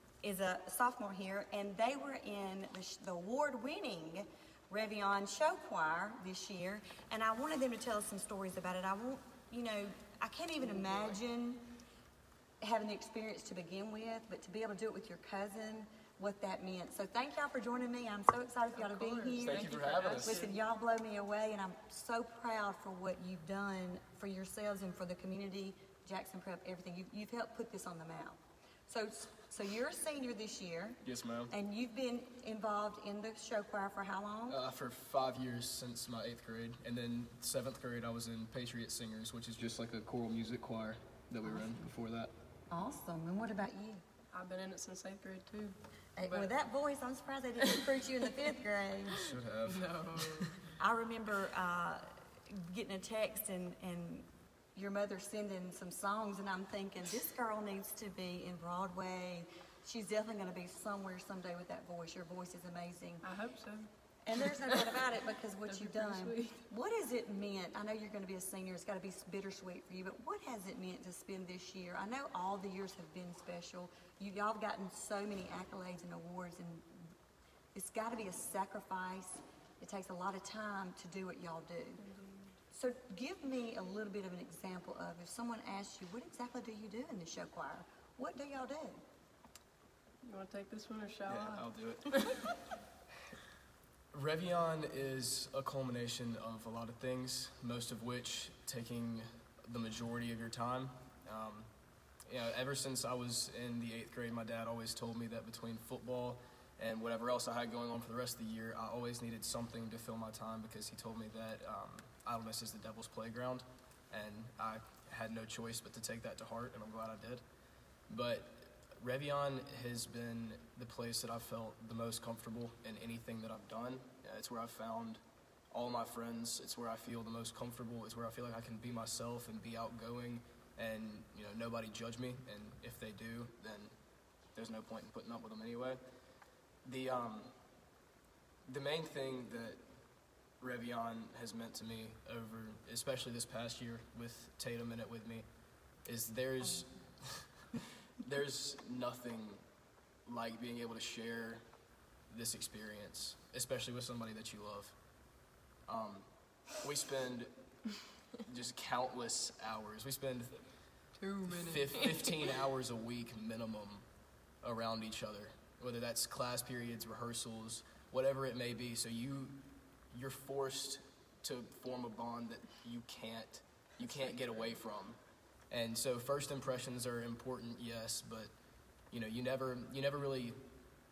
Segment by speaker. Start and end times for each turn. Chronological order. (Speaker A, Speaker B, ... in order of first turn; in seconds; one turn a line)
Speaker A: 0.2-11.7
Speaker B: 10.7-11.1
Speaker A: 12.6-34.6
Speaker B: 18.7-20.6
Speaker C: 19.4-20.4
Speaker C: 31.0-31.5
Speaker C: 34.5-42.3
Speaker A: 41.4-41.8
Speaker A: 42.7-44.0
Speaker B: 44.3-46.5
Speaker A: 46.1-49.2
Speaker B: 47.6-47.9
Speaker C: 49.1-50.6
Speaker B: 49.6-50.6
Speaker A: 50.8-63.2
Speaker B: 63.2-63.9
Speaker A: 64.2-77.0
Speaker B: 64.4-65.0
Speaker B: 65.7-66.6
Speaker A: 77.7-82.0
Speaker B: 82.0-82.5
Speaker A: 82.7-89.0
Speaker B: 90.2-92.4
Speaker C: 91.3-92.5
Speaker C: 94.1-101.7
Speaker C: 102.2-117.4
Speaker C: 118.1-133.9
Speaker C: 134.5-136.0
Speaker C: 136.8-137.5
Speaker C: 138.7-139.8
Speaker C: 140.6-145.4
Speaker C: 146.0-147.6
Speaker C: 148.2-149.6
Speaker C: 150.2-151.6
Speaker C: 152.3-154.9
Speaker C: 155.9-157.5
Speaker C: 158.4-160.6
Speaker B: 161.2-162.4
Speaker C: 161.4-164.0
Speaker C: 164.6-169.6
Speaker C: 170.1-178.5
Speaker C: 179.1-180.6